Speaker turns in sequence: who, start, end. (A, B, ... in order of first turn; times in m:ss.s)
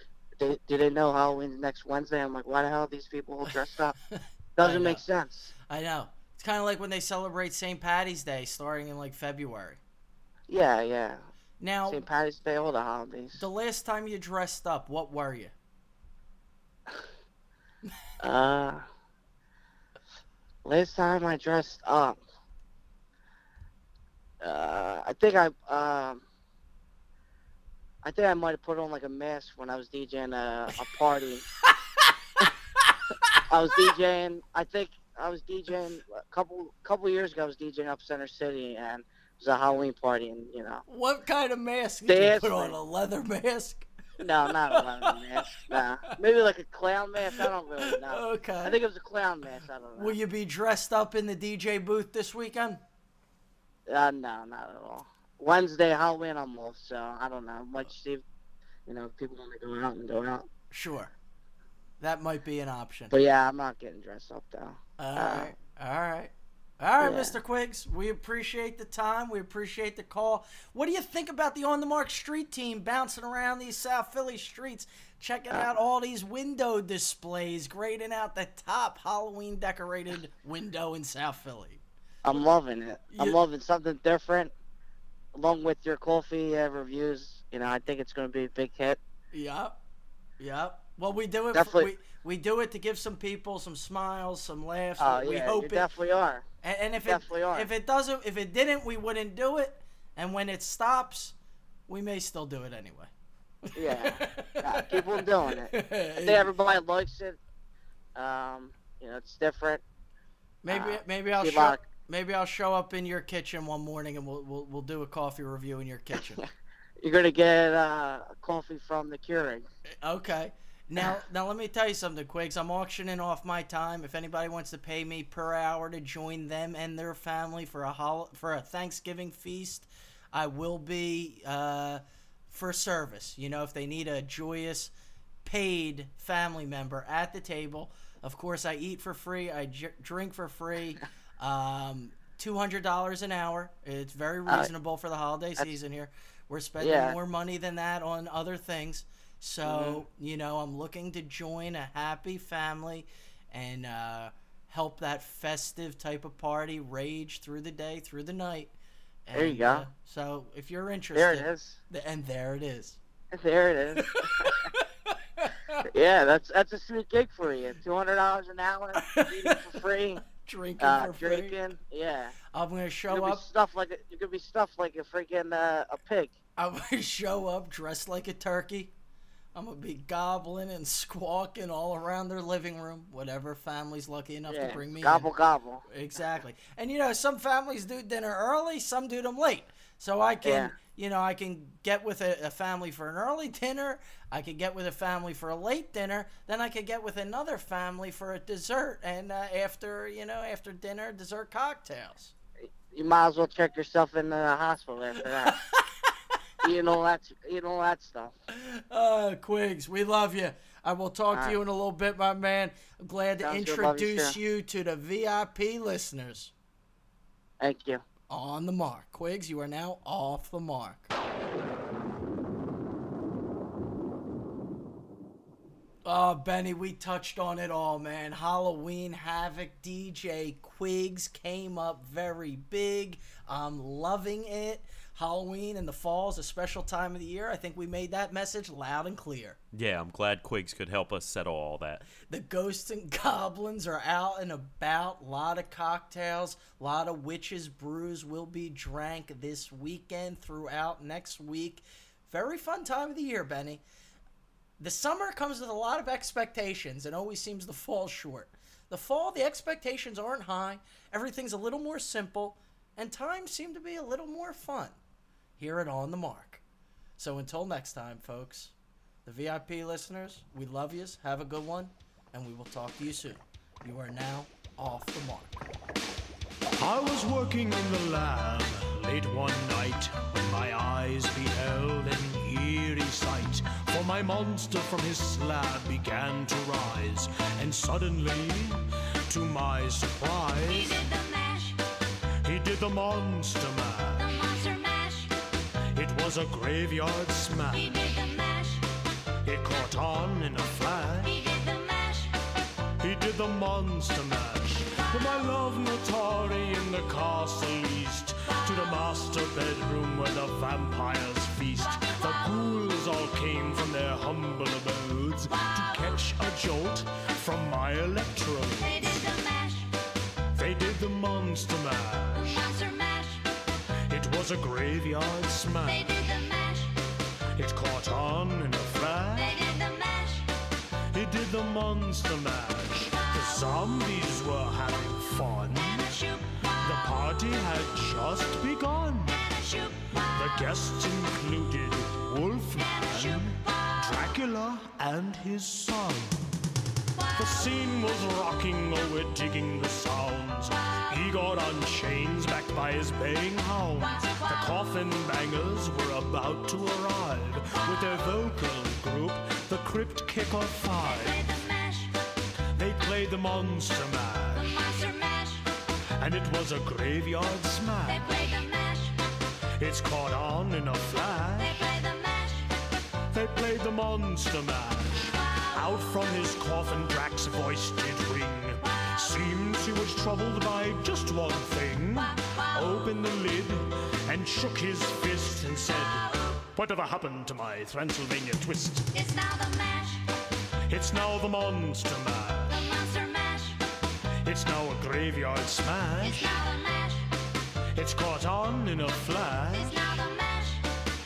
0:00.4-0:03.9 A
0:04.1-0:05.0 B
0:04.6-0:05.5 A
0:05.7-0:09.8 B
0:10.5-0:11.2 A
0:11.6-0:12.0 B
0:11.9-0:13.5 A
0:13.4-0:15.5 B
0:18.2-0:18.8 A
0:20.6-0:22.2 A
0:24.4-0:26.2 A
0:28.0-0:31.4 A
0:31.7-0:33.9 B
0:33.5-0:40.8 A
0:40.9-0:43.9 B
0:42.0-0:42.8 A
0:44.2-0:50.2 A
0:44.4-0:46.1 B
0:47.3-0:48.8 B
0:49.9-0:52.8 B
0:53.9-0:58.2 A
0:58.9-1:00.5 A
1:00.7-1:01.1 B
1:02.0-1:03.1 B
1:03.1-1:05.5 A
1:05.0-1:22.4 B
1:07.0-1:07.4 A
1:22.2-1:24.5 A
1:23.1-1:23.4 B
1:25.3-1:29.0 A
1:29.3-1:29.8 B
1:30.4-1:35.9 B
1:31.5-1:31.9 A
1:35.0-1:36.4 A
1:36.6-1:41.3 B
1:37.1-1:37.7 A
1:41.9-1:43.1 B
1:43.7-1:46.5 B
1:43.7-1:47.4 A
1:48.1-1:49.8 A
1:50.6-1:56.4 B
1:50.7-1:51.9 A
1:57.0-1:59.6 A
1:59.9-2:14.9 B
2:15.4-2:38.7 B
2:26.8-2:27.2 A
2:29.6-2:30.0 A
2:39.2-2:43.0 B
2:39.3-2:39.9 A
2:41.1-2:41.8 A
2:43.3-2:44.7 A
2:44.0-2:45.8 B
2:45.8-2:50.2 A
2:48.9-2:51.6 B
2:50.8-2:52.3 A
2:52.5-2:53.4 B
2:53.1-2:56.3 A
2:56.6-2:58.9 B
2:59.5-3:05.3 B
3:04.5-3:05.8 A
3:05.9-3:22.3 B
3:10.4-3:10.7 A
3:22.7-3:25.6 A
3:25.2-3:26.1 B
3:26.6-3:28.3 A
3:28.5-3:36.5 B
3:33.4-3:34.4 A
3:37.6-3:38.0 A
3:38.3-3:41.1 B
3:46.0-3:59.6 B
3:59.7-4:02.1 C
4:02.2-4:13.8 B
4:14.8-4:25.0 B
4:25.6-4:26.6 B
4:27.2-4:28.7 B
4:29.2-4:35.6 B
4:36.8-4:51.0 D
4:50.6-4:51.8 E
4:52.4-4:54.3 D
4:54.2-4:55.3 E
4:55.9-4:57.9 D
4:57.7-4:58.9 E
4:59.4-5:01.4 D
5:01.2-5:02.4 E
5:03.0-5:19.3 D
5:11.9-5:12.5 E
5:15.5-5:16.2 E
5:18.8-5:19.9 E
5:20.5-5:22.6 D
5:22.4-5:23.6 E
5:24.1-5:26.2 D
5:25.8-5:27.0 E
5:27.5-5:29.6 D
5:29.3-5:30.5 E
5:31.1-5:36.1 D
5:33.1-5:33.7 E
5:35.7-5:37.2 E
5:36.8-5:39.4 D
5:39.3-5:40.7 E
5:40.3-5:46.4 D
5:42.8-5:44.2 E
5:47.2-5:47.8 E
5:47.4-6:01.4 D
5:54.0-5:54.8 E
6:01.0-6:02.2 E
6:02.7-6:04.8 D
6:04.5-6:05.7 E
6:06.2-6:08.3 D
6:08.0-6:09.2 E
6:09.8-6:11.9 D
6:11.6-6:12.9 E
6:13.3-6:29.1 D
6:15.3-6:15.8 E
6:18.9-6:19.3 E
6:22.2-6:22.9 E
6:29.1-6:30.3 E
6:30.9-6:32.9 D
6:32.7-6:33.8 E
6:34.4-6:36.6 D
6:36.2-6:37.4 E
6:37.9-6:40.1 D
6:39.7-6:40.9 E